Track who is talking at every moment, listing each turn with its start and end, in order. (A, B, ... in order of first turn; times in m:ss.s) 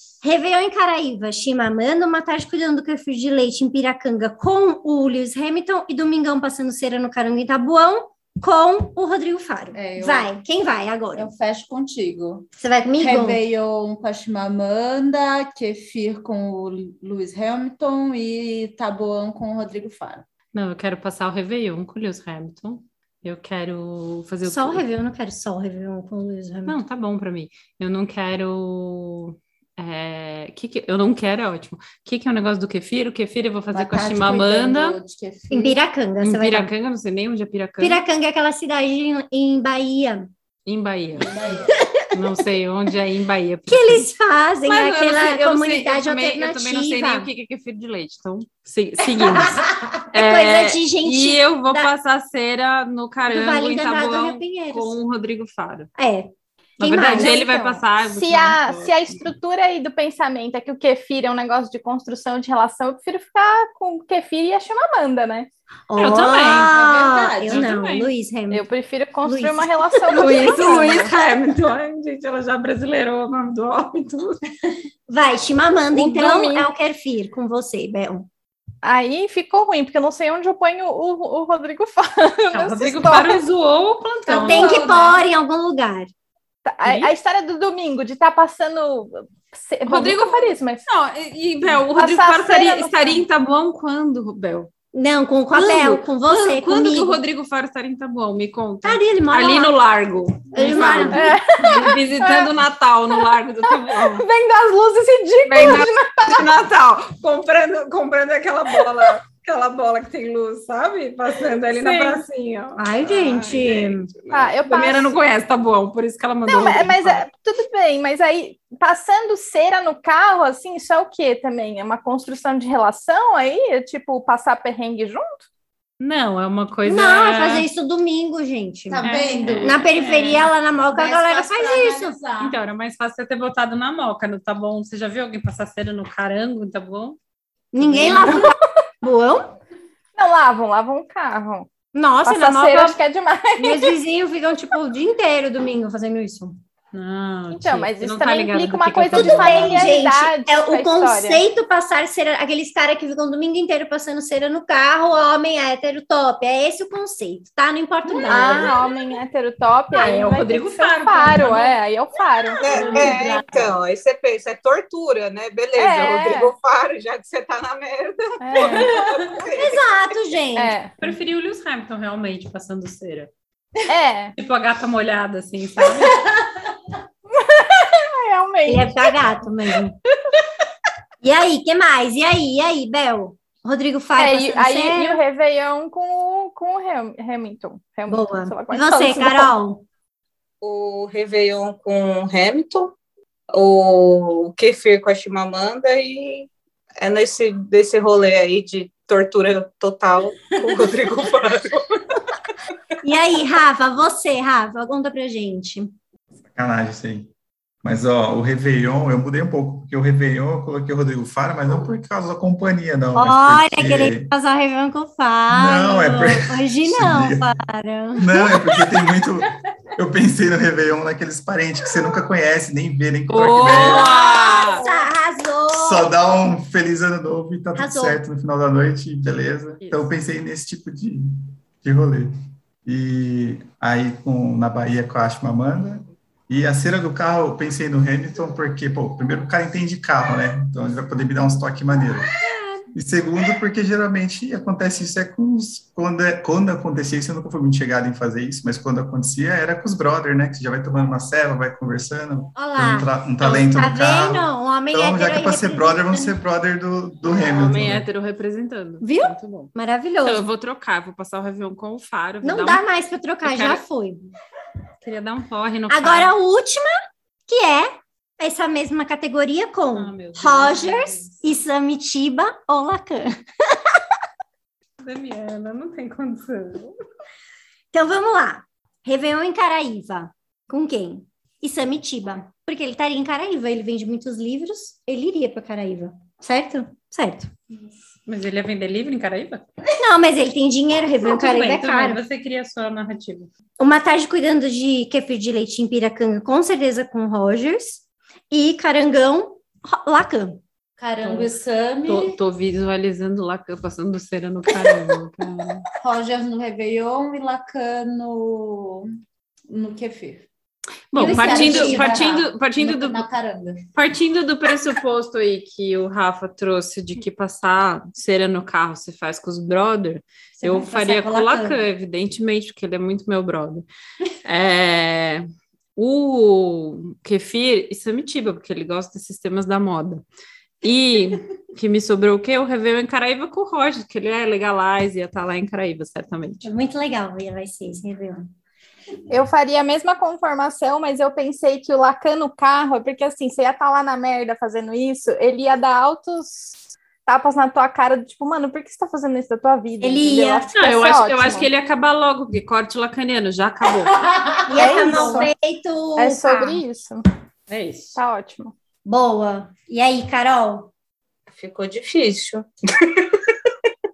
0:00.2-0:11.3 A
0:09.7-0:10.3 B
0:11.1-0:20.2 B
0:12.5-0:13.4 A
0:20.5-0:24.8 C
0:24.4-0:26.8 A
0:26.6-0:35.0 C
0:33.7-0:35.8 B
0:35.5-0:36.7 A
0:36.2-0:38.0 C
0:37.8-0:40.3 A
0:40.6-0:41.3 C
0:41.2-0:41.7 B
0:41.7-0:42.0 A
0:42.1-0:44.1 C
0:43.7-0:47.3 A
0:44.6-0:49.6 C
0:49.4-0:51.9 A
0:50.1-0:55.9 C
0:53.3-0:55.0 A
0:56.0-0:57.3 A
0:56.8-0:59.2 C
0:57.0-1:05.5 D
1:05.9-1:08.6 A
1:06.0-1:06.7 C
1:06.4-1:07.7 B
1:07.5-1:08.1 C
1:08.5-1:11.1 D
1:09.2-1:11.0 A
1:10.1-1:14.4 C
1:15.1-1:18.3 A
1:15.9-1:16.7 D
1:18.8-1:23.4 D
1:22.5-1:25.1 C
1:24.2-1:25.2 B
1:24.3-1:26.1 A
1:26.6-1:30.8 D
1:26.8-1:27.1 C
1:29.8-1:34.7 C
1:31.7-1:33.2 D
1:34.9-1:37.2 A
1:35.5-1:44.2 C
1:38.8-1:39.8 A
1:40.5-1:41.3 A
1:41.1-1:42.6 D
1:44.1-1:46.5 D
1:45.4-1:57.2 C
1:51.8-1:52.2 D
1:52.8-1:54.1 A
1:54.3-1:55.1 D
1:56.4-2:05.5 D
2:06.0-2:07.7 C
2:06.8-2:12.2 A
2:08.9-2:09.9 B
2:09.0-2:10.4 C
2:10.8-2:12.6 B
2:12.4-2:17.2 C
2:17.7-2:19.5 A
2:17.8-2:18.4 C
2:18.0-2:18.2 B
2:20.2-2:21.7 D
2:21.9-2:23.0 A
2:22.2-2:24.0 D
2:23.6-2:26.6 A
2:26.9-2:29.8 C
2:27.5-2:31.4 D
2:29.1-2:38.8 A
2:38.3-2:42.6 D
2:39.9-2:41.8 C
2:42.6-2:50.0 E
2:42.7-2:43.7 B
2:45.8-2:46.5 D
2:48.4-2:48.9 D
2:49.5-2:50.8 A
2:50.6-2:50.9 D
2:51.0-2:53.3 C
2:53.9-2:54.3 D
2:54.4-2:56.2 C
2:57.3-2:59.1 D
2:58.6-3:00.0 A
3:01.2-3:05.2 A
3:04.2-3:09.5 D
3:08.1-3:09.8 A
3:10.6-3:13.0 E
3:13.5-3:16.5 E
3:17.0-3:22.0 E
3:23.0-3:25.9 A
3:26.4-3:27.3 F
3:27.8-3:34.3 F
3:33.1-3:38.8 A
3:35.5-3:37.5 F
3:38.2-3:44.2 F
3:43.3-3:44.9 C
3:43.6-3:46.1 A
3:45.7-3:51.2 F
3:47.7-3:48.2 A
3:49.8-3:50.1 C
3:51.8-3:52.3 F
3:52.8-4:02.4 F
4:02.4-4:02.8 A
4:02.9-4:18.0 F
4:12.5-4:16.4 A
4:17.2-4:19.7 C
4:19.0-4:20.4 A
4:20.2-4:22.8 C
4:22.4-4:24.3 A
4:23.4-4:23.8 C
4:25.0-4:26.3 C
4:25.9-4:27.0 A
4:27.5-4:34.0 A
4:29.9-4:31.5 C
4:35.0-4:37.0 C
4:37.9-4:47.5 A
4:48.2-4:49.6 C
4:50.0-4:52.2 A
4:51.2-4:53.5 C
4:53.8-5:00.6 A
5:01.0-5:02.4 B
5:01.2-5:05.8 C
5:06.0-5:09.1 B
5:09.7-5:10.5 B
5:11.1-5:13.2 C
5:11.1-5:12.4 A
5:11.2-5:13.8 B
5:13.9-5:23.8 C
5:20.6-5:21.8 A
5:24.4-5:25.4 C
5:26.0-5:30.2 C
5:30.8-5:36.6 C
5:36.6-5:38.5 A
5:39.3-5:51.7 D
5:50.0-5:51.0 A
5:50.8-5:54.2 C
5:54.6-5:56.8 A
5:54.7-5:55.5 D
5:56.2-5:57.2 D
5:57.7-5:58.2 C
5:58.2-5:58.7 D
5:59.0-6:00.9 A
6:01.5-6:03.5 E